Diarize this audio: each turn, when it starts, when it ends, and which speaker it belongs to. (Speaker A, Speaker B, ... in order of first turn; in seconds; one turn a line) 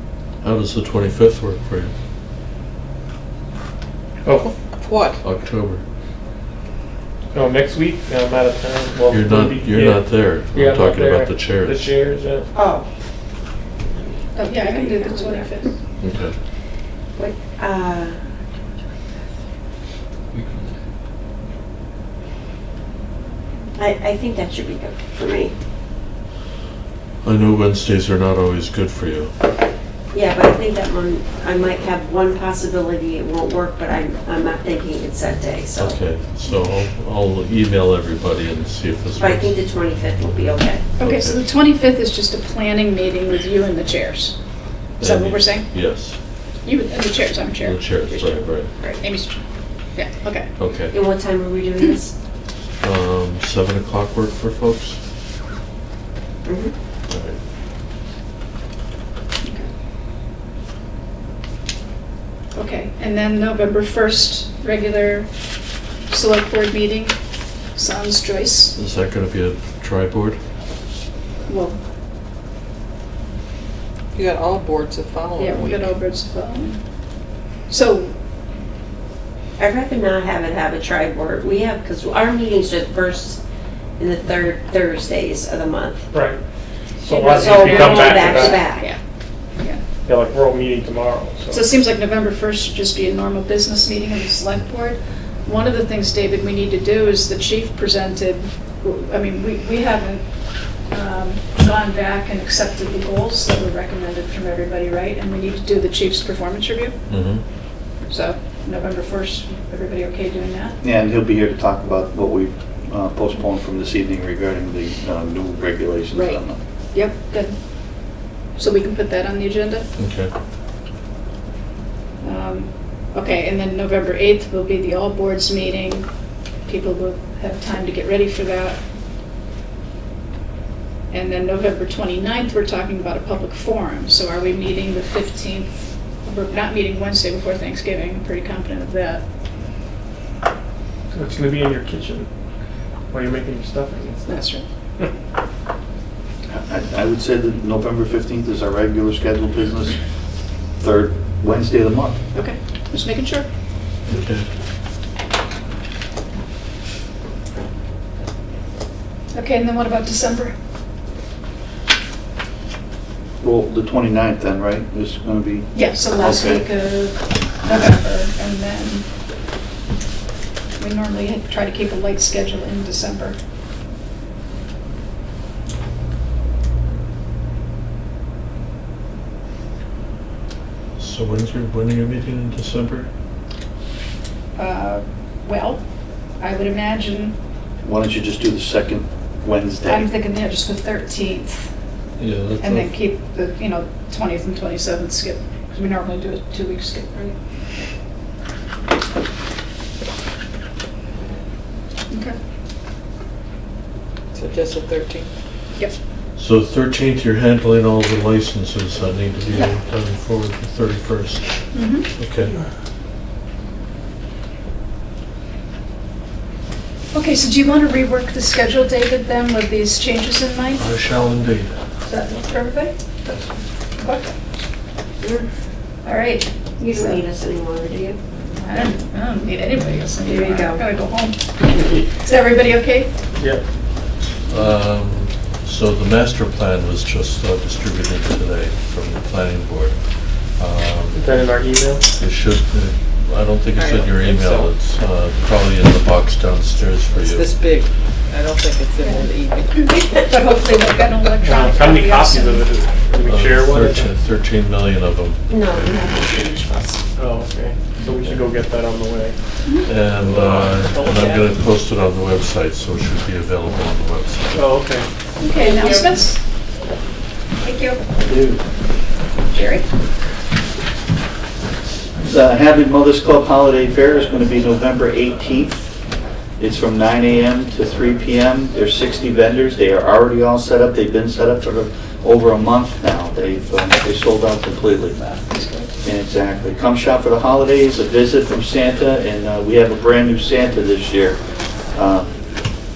Speaker A: 0.4-1.9
Speaker B: 4.2-4.5
Speaker C: 4.8-5.2
Speaker A: 5.2-5.8
Speaker B: 7.3-12.5
Speaker A: 9.1-11.9
Speaker D: 12.5-12.9
Speaker D: 13.9-15.6
Speaker E: 14.4-15.7
Speaker A: 16.0-16.4
Speaker D: 17.2-18.2
Speaker C: 20.4-20.7
Speaker D: 23.8-25.6
Speaker A: 27.2-29.3
Speaker D: 30.1-36.0
Speaker A: 35.8-39.5
Speaker D: 39.2-40.9
Speaker A: 41.0-41.4
Speaker E: 41.0-44.4
Speaker A: 45.0-46.2
Speaker E: 45.0-45.7
Speaker E: 46.6-48.5
Speaker A: 47.6-48.7
Speaker E: 49.0-49.4
Speaker E: 50.0-50.5
Speaker A: 50.6-51.0
Speaker D: 50.9-52.1
Speaker A: 52.8-55.0
Speaker D: 56.5-56.7
Speaker A: 57.1-57.4
Speaker E: 59.4-59.7
Speaker E: 62.5-65.3
Speaker E: 66.1-67.2
Speaker E: 67.7-68.8
Speaker A: 68.8-70.4
Speaker E: 71.5-71.8
Speaker C: 74.1-75.9
Speaker E: 75.4-76.8
Speaker E: 77.7-78.1
Speaker D: 79.6-83.4
Speaker D: 84.0-86.1
Speaker B: 86.1-86.4
Speaker B: 87.0-88.7
Speaker D: 87.0-88.9
Speaker E: 87.3-89.0
Speaker B: 90.1-91.7
Speaker E: 91.5-100.2
Speaker E: 100.9-107.0
Speaker A: 107.1-107.4
Speaker E: 108.1-110.8
Speaker F: 110.8-116.6
Speaker E: 116.1-116.4
Speaker E: 116.9-117.6
Speaker E: 118.6-119.9
Speaker A: 120.0-120.3
Speaker E: 122.2-126.1
Speaker E: 126.7-128.8
Speaker E: 131.1-139.2
Speaker B: 141.1-142.3
Speaker B: 143.1-144.5
Speaker E: 144.3-144.7
Speaker F: 146.5-150.0
Speaker F: 150.8-152.2
Speaker E: 152.3-153.5
Speaker A: 154.1-154.4
Speaker E: 159.3-160.6
Speaker F: 163.4-166.7
Speaker E: 165.7-169.1
Speaker E: 170.8-173.4
Speaker A: 181.0-183.1
Speaker E: 184.6-185.8
Speaker E: 186.4-187.3
Speaker F: 187.8-190.1
Speaker E: 189.9-191.7
Speaker A: 192.2-192.9
Speaker E: 192.6-197.4
Speaker E: 202.1-202.4
Speaker C: 204.3-205.3
Speaker A: 206.4-212.5
Speaker E: 211.7-212.1
Speaker E: 217.1-220.9
Speaker A: 220.8-221.7
Speaker E: 222.1-223.0
Speaker E: 224.0-224.4
Speaker D: 225.2-225.5
Speaker E: 226.0-227.2
Speaker D: 226.8-228.2
Speaker E: 228.6-231.4
Speaker D: 230.2-230.8
Speaker E: 231.9-233.1
Speaker B: 233.3-233.6
Speaker A: 234.5-241.4
Speaker B: 241.1-242.1
Speaker A: 242.2-247.5
Speaker C: 243.7-244.7
Speaker C: 247.1-249.9
Speaker E: 249.0-252.7
Speaker B: 251.4-254.1
Speaker A: 253.2-255.9
Speaker D: 255.5-256.7
Speaker E: 256.2-257.0
Speaker B: 257.2-259.4
Speaker A: 258.0-258.5
Speaker A: 259.9-264.7
Speaker B: 260.3-261.4
Speaker B: 264.5-265.1
Speaker E: 265.4-266.4
Speaker D: 265.6-266.1
Speaker D: 267.6-268.0
Speaker E: 269.5-269.9
Speaker F: 272.2-275.8
Speaker F: 276.6-285.2
Speaker E: 285.2-285.9
Speaker F: 286.0-291.4
Speaker F: 291.9-292.3